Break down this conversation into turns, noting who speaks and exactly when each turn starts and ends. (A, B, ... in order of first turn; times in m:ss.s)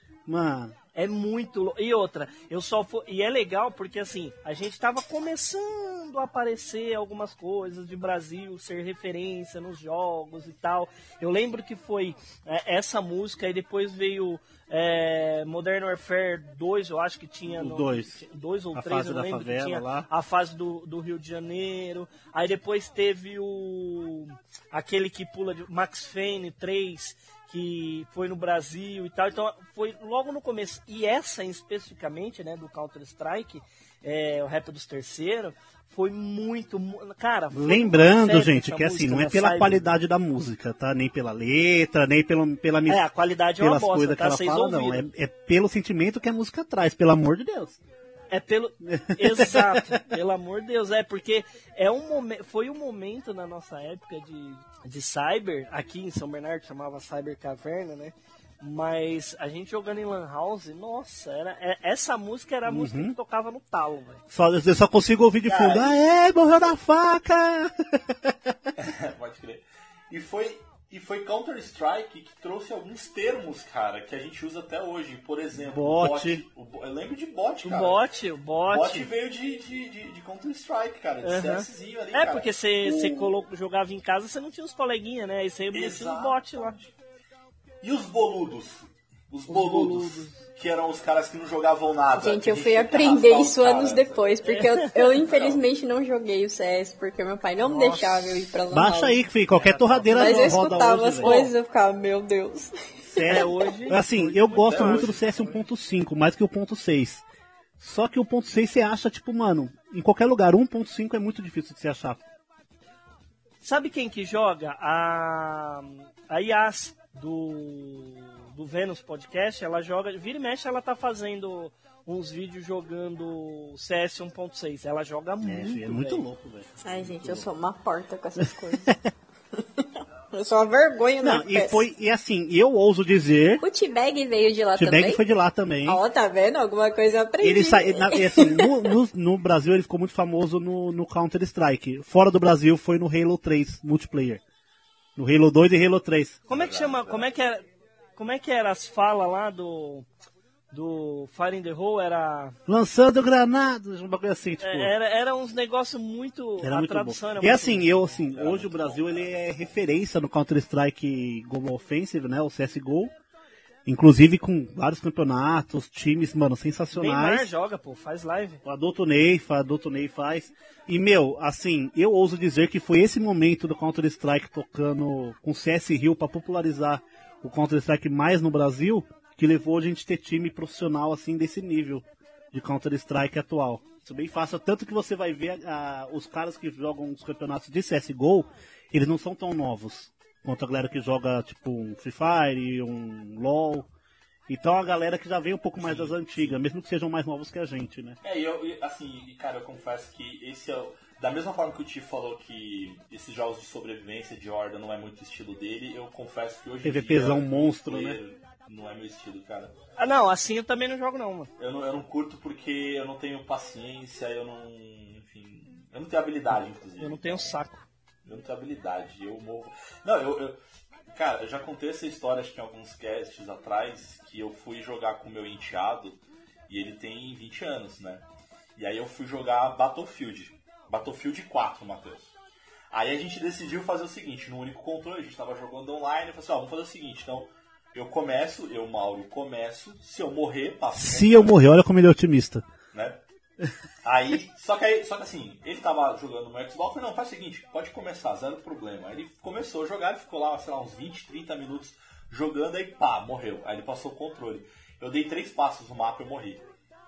0:00.3-0:00.7 A
0:00.9-0:39.8 B
0:17.4-0:18.2 A
0:18.7-0:20.1 A
0:37.5-0:43.0 A
0:42.9-0:45.0 B
0:43.6-0:47.8 A
0:48.3-1:04.2 B
0:48.8-0:50.0 A
1:02.7-1:03.2 A
1:04.3-1:08.7 A
1:05.4-1:06.0 C
1:08.8-1:18.0 C
1:15.7-1:16.4 A
1:17.6-1:19.1 B
1:18.7-1:23.3 C
1:21.2-1:26.7 B
1:25.7-1:26.9 C
1:27.8-1:34.3 C
1:29.5-1:30.4 B
1:32.1-1:39.2 D
1:34.4-1:35.1 B
1:35.2-1:35.6 C
1:37.6-1:38.5 B
1:38.7-1:41.5 A
1:39.5-1:40.6 B
1:40.1-1:43.5 D
1:41.2-1:41.5 B
1:43.1-1:47.2 A
1:43.2-1:45.4 B
1:44.2-1:45.6 C
1:47.8-1:52.2 A
1:53.6-2:06.2 B
2:05.4-2:07.5 A
2:06.8-2:09.0 D
2:09.6-2:11.8 D
2:11.2-2:13.6 A
2:13.6-2:15.2 D
2:14.7-2:16.0 A
2:15.8-2:18.7 D
2:17.4-2:24.4 A
2:25.2-2:26.4 A
2:26.5-2:27.3 C
2:26.5-2:30.1 B
2:30.7-2:32.6 B
2:32.7-2:34.9 A
2:34.6-2:37.9 B
2:36.6-2:43.1 A
2:38.1-2:39.7 C
2:43.8-2:47.5 A
2:46.9-2:48.6 B
2:48.6-3:13.9 A
3:14.5-3:18.2 A
3:15.8-3:16.6 C
3:18.2-3:29.7 C
3:26.8-3:28.2 A
3:30.0-3:31.5 B
3:31.6-3:37.6 C
3:37.0-3:37.8 B
3:38.2-3:40.6 C
3:41.1-3:48.2 C
3:48.8-3:52.3 C
3:52.9-4:01.6 C
4:01.0-4:02.6 A
4:02.9-4:03.2 C
4:04.0-4:16.6 C